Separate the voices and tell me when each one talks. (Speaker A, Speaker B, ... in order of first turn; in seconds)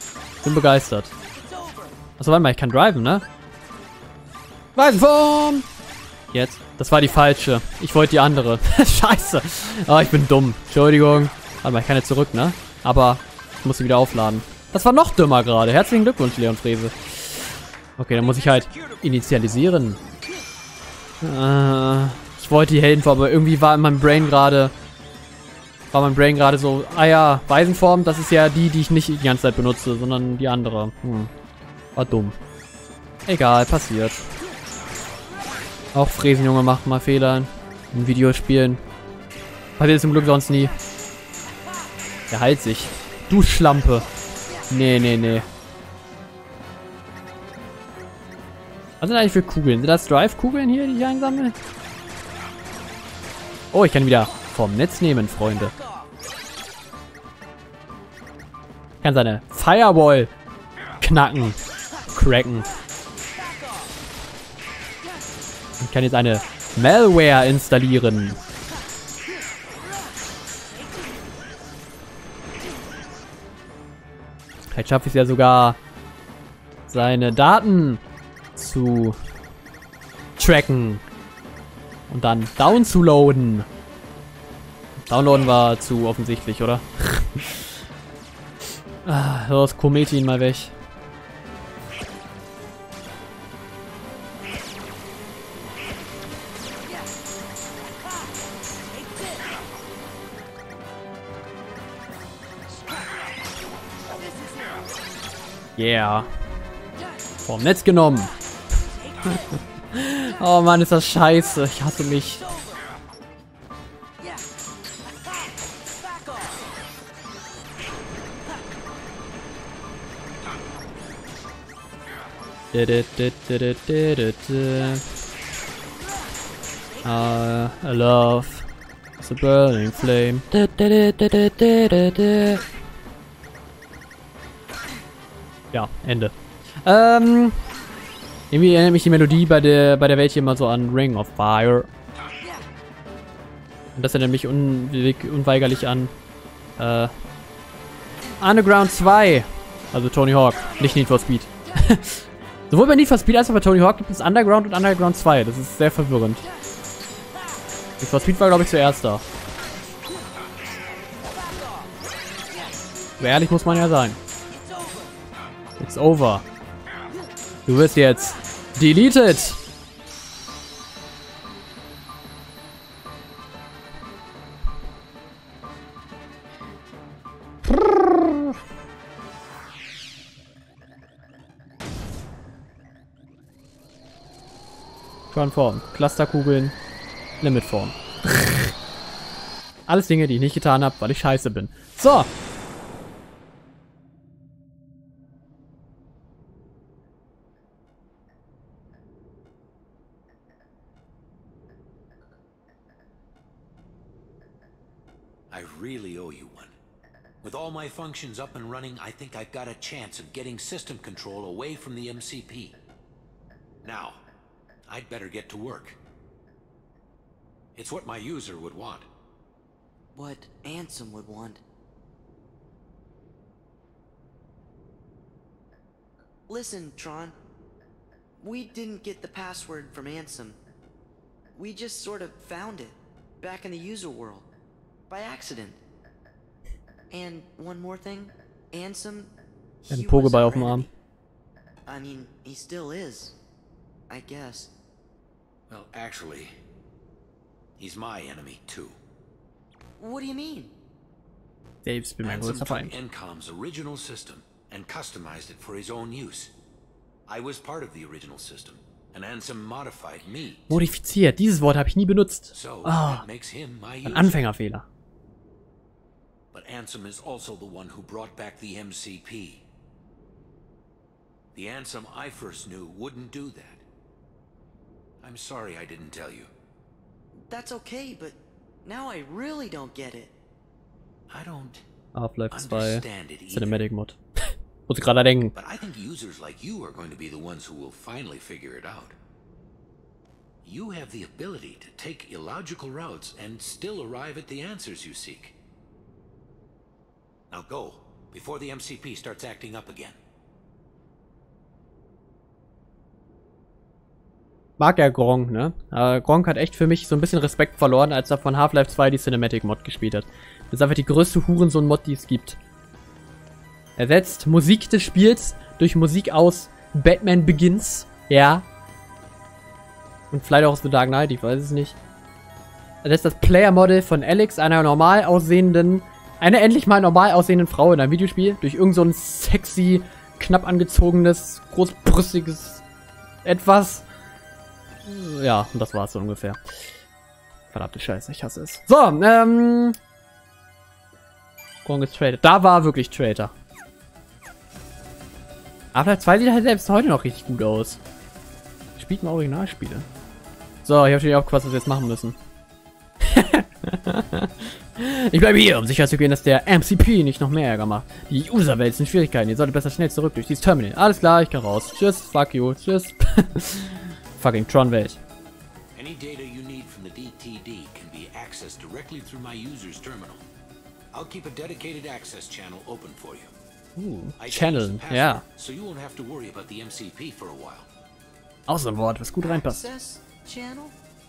Speaker A: 0.4-1.1, 2.2-3.3, 4.8-5.7, 6.3-20.0, 21.2-24.7, 25.9-31.3, 32.0-32.4, 33.3-34.3, 35.9-38.8, 39.8-40.7, 42.3-44.1, 44.7-45.5, 49.0-51.6, 53.7-55.7, 59.0-60.3, 61.0-61.6, 62.1-62.7, 65.8-68.4, 74.7-75.8, 76.9-78.0, 78.6-79.2, 80.4-81.0, 82.1-83.7, 85.1-87.7, 89.0-90.7, 105.8-106.3, 107.5-108.3, 109.3-112.5, 122.7-125.0, 127.0-128.7, 129.2-132.7, 135.7-137.6, 138.5-141.9, 144.0-146.1, 146.8-147.1, 148.4-156.4, 158.0-159.2, 163.2-164.2, 165.8-166.4, 167.7-169.6, 177.7-178.6, 185.3-186.8, 187.4-188.7, 189.9-192.3, 239.9-240.9, 251.8-252.9, 260.7-263.3, 264.1-264.9, 282.1-285.5, 304.8-312.6, 314.0-318.7, 320.3-322.0, 323.0-332.8, 333.4-334.1, 335.1-336.9, 337.7-340.0, 341.9-343.5, 345.9-348.0, 349.0-350.1, 350.9-352.4, 353.2-365.2, 374.0-375.4, 378.7-379.9
Speaker B: 1.4-1.9, 220.2-221.6, 226.5-227.4, 228.4-230.6, 231.6-234.5, 235.1-235.8, 237.1-239.3, 239.8-240.9, 241.9-243.4, 244.1-244.7, 250.0-250.7, 277.4-280.3, 379.4-380.9
Speaker C: 18.2-19.0, 205.5-206.7, 207.4-212.8, 213.8-214.2, 214.9-216.0, 217.8-219.1, 245.7-246.5, 247.8-249.0, 252.2-256.5, 257.3-260.8, 262.5-264.4, 266.5-269.6, 271.5-273.8, 275.2-276.5, 281.3-281.8, 282.5-283.9, 285.6-289.2, 290.6-295.6, 297.5-300.2, 365.9-370.4, 371.1-373.5, 374.4-377.9